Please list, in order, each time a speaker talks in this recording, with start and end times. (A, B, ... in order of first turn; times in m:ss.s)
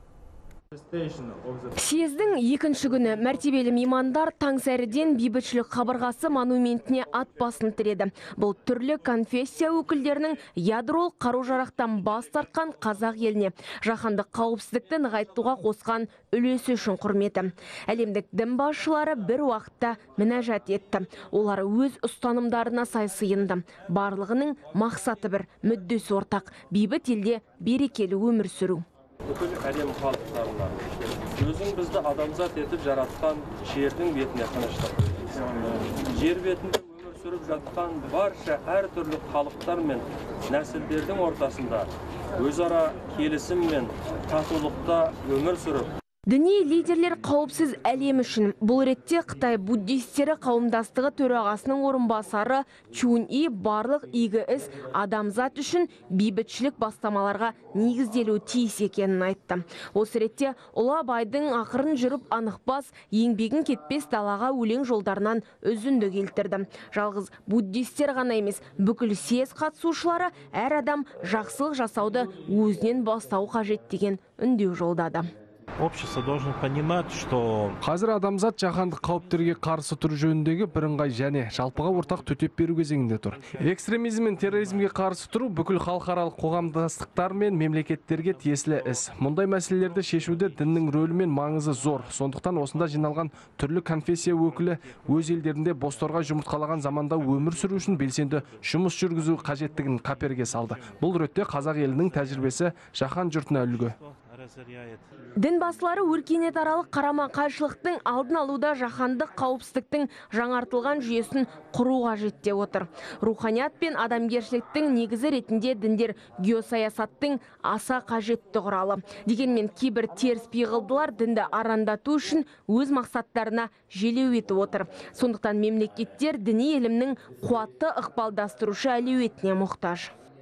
0:00.8-0:01.6 A
0:01.8-0:28.8 B
0:29.3-0:45.9 C
0:46.3-1:15.3 B
1:15.8-1:17.8 A
1:17.8-1:44.0 D
1:24.5-1:24.8 A
1:28.5-1:29.1 A
1:29.8-1:32.2 A
1:34.4-1:35.3 A
1:35.9-1:38.4 A
1:41.9-1:42.5 A
1:43.7-1:45.0 A
1:45.4-2:10.1 B